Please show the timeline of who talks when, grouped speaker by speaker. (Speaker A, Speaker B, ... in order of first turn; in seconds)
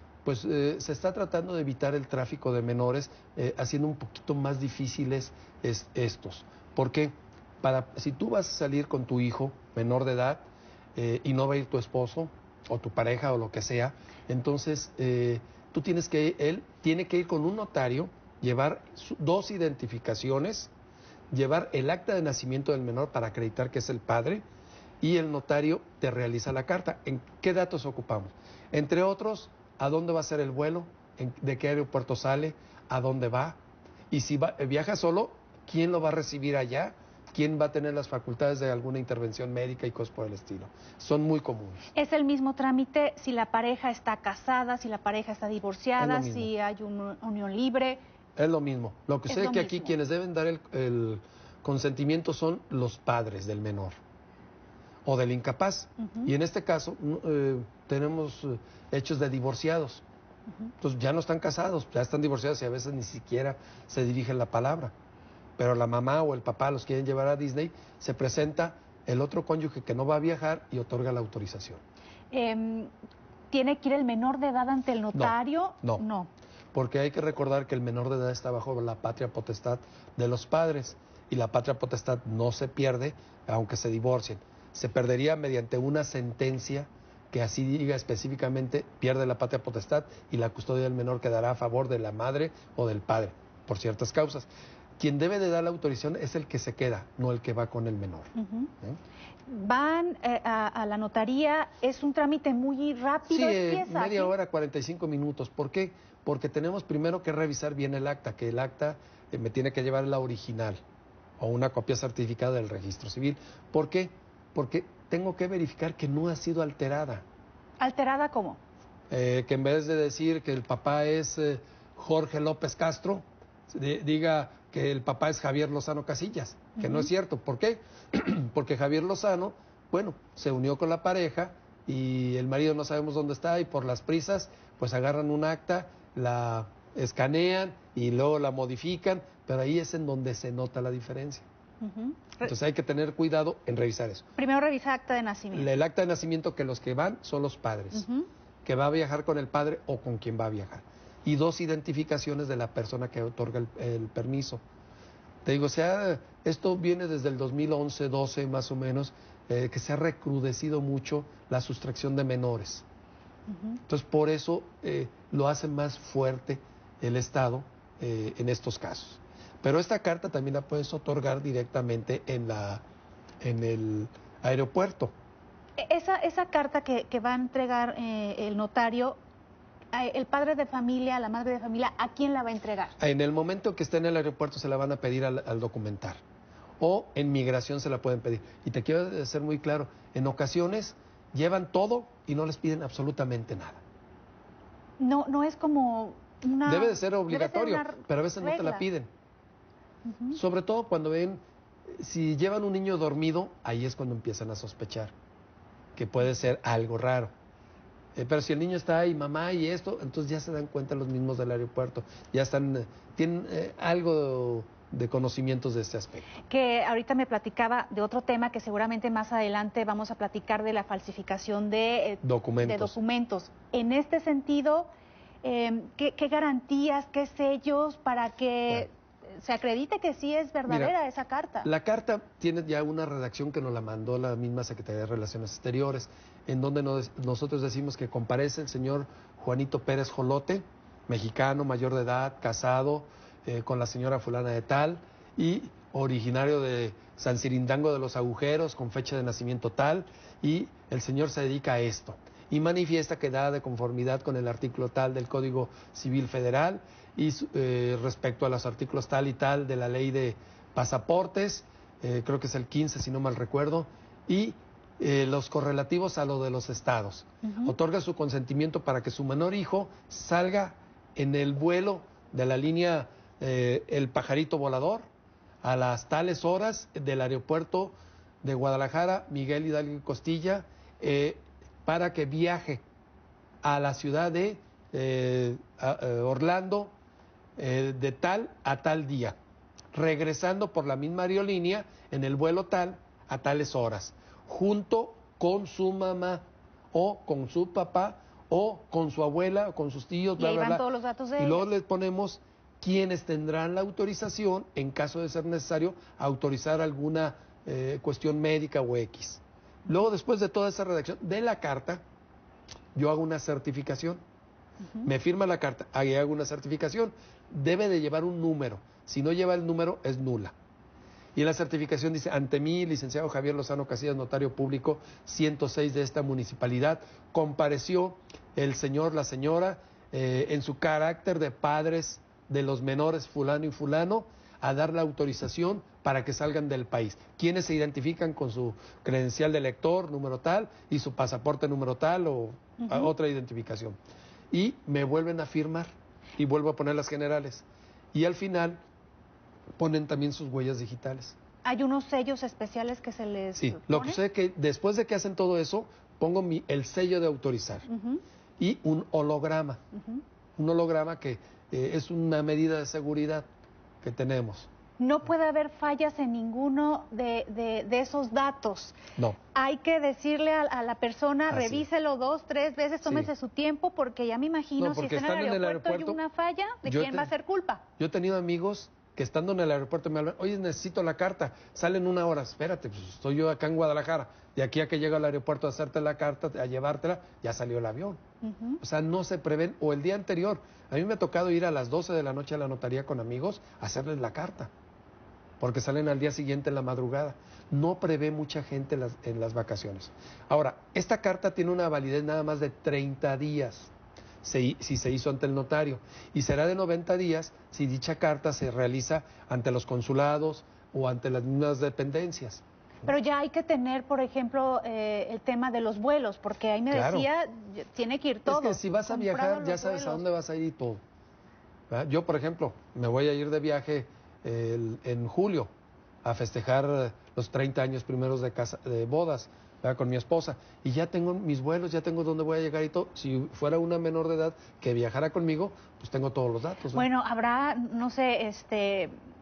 Speaker A: 0.2-20.7, 21.3-24.4, 25.0-33.6, 34.1-41.9, 46.0-46.5, 48.4-54.0, 55.0-60.0, 60.8-64.9, 65.6-71.8, 75.1-76.0, 76.7-98.3, 103.2-110.8, 111.4-117.2, 119.1-141.4, 142.4-144.2, 145.5-148.1, 148.6-154.6, 155.4-162.8, 163.9-172.8, 173.4-175.1, 183.0-186.2, 186.8-193.8, 196.7-199.1, 200.3-205.1, 205.9-207.3, 208.2-216.3, 222.2-223.0, 230.7-230.9, 231.6-275.0, 275.6-282.8, 283.6-286.9, 287.6-289.4, 289.9-296.4, 296.9-300.8, 301.4-312.0, 312.9-314.2, 315.0-320.5, 321.3-344.0, 344.5-348.8, 349.8-351.4, 353.5-357.9, 358.6-359.8, 360.6-363.4, 364.0-364.7, 371.5-371.9, 373.0-373.3, 374.8-376.2, 376.8-377.3, 378.0-388.2, 388.8-394.7, 395.6-412.6, 416.9-417.3, 418.4-421.0, 421.9-425.7, 426.2-437.1
Speaker B: 41.9-48.0, 49.3-49.9, 56.0-56.3, 72.3-72.9, 73.5-76.3, 98.3-98.7, 99.5-104.3, 117.8-118.6, 126.8-127.1, 141.8-142.5, 144.4-145.7, 147.9-148.3, 163.5-163.8, 175.8-179.2, 179.9-182.9, 195.0-198.8, 200.0-200.4, 216.5-224.9, 225.4-231.7, 267.4-267.7, 300.4-301.7, 342.8-343.1, 351.6-354.2, 357.9-358.2, 365.0-369.0, 369.5-377.8, 388.4-388.8, 413.1-420.2, 436.9-439.1